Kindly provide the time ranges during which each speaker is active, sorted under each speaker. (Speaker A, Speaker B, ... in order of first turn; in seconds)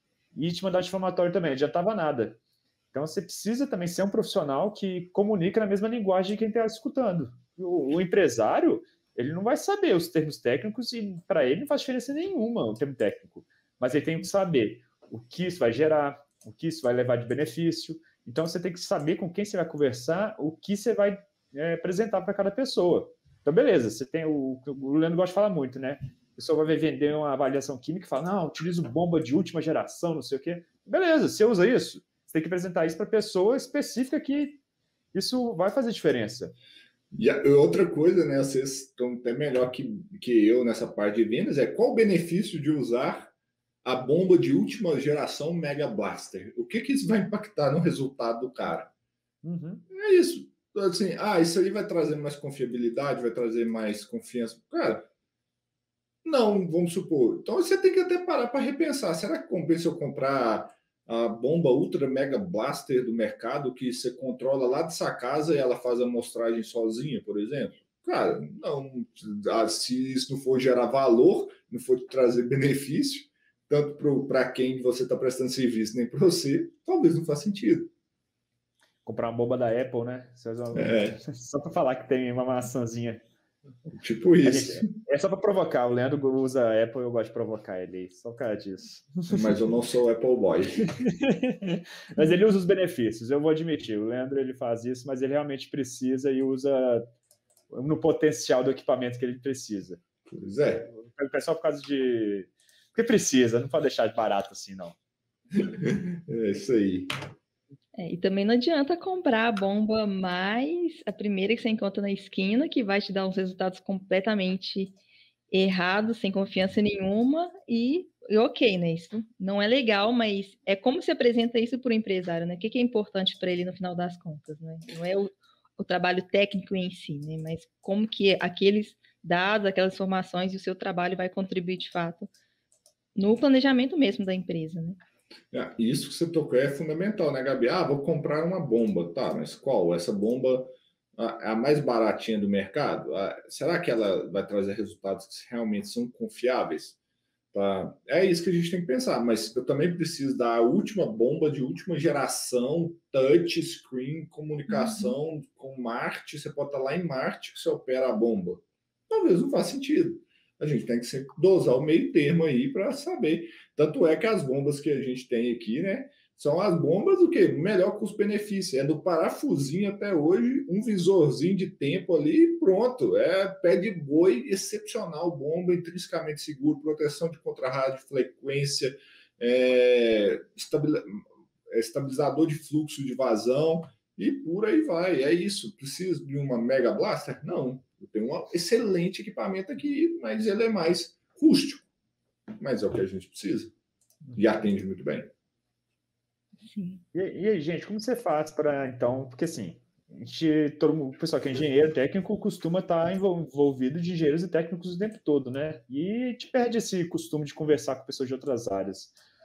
Speaker A: 0.3-2.4, 2.9-34.6, 35.1-36.5, 49.4-49.8, 79.0-83.2, 84.4-89.5, 91.0-97.0, 97.7-100.0, 100.9-105.0, 197.1-209.1
Speaker B: 37.1-43.3, 43.8-48.9, 49.9-55.1, 56.2-77.9, 80.7-81.2, 83.9-84.9, 89.3-90.9, 100.3-100.9, 105.6-107.1, 135.5-146.9, 147.5-191.9, 192.6-193.7, 194.3-195.3
Speaker C: 108.0-114.9, 115.5-132.3, 133.2-135.0, 154.7-155.1, 196.6-197.0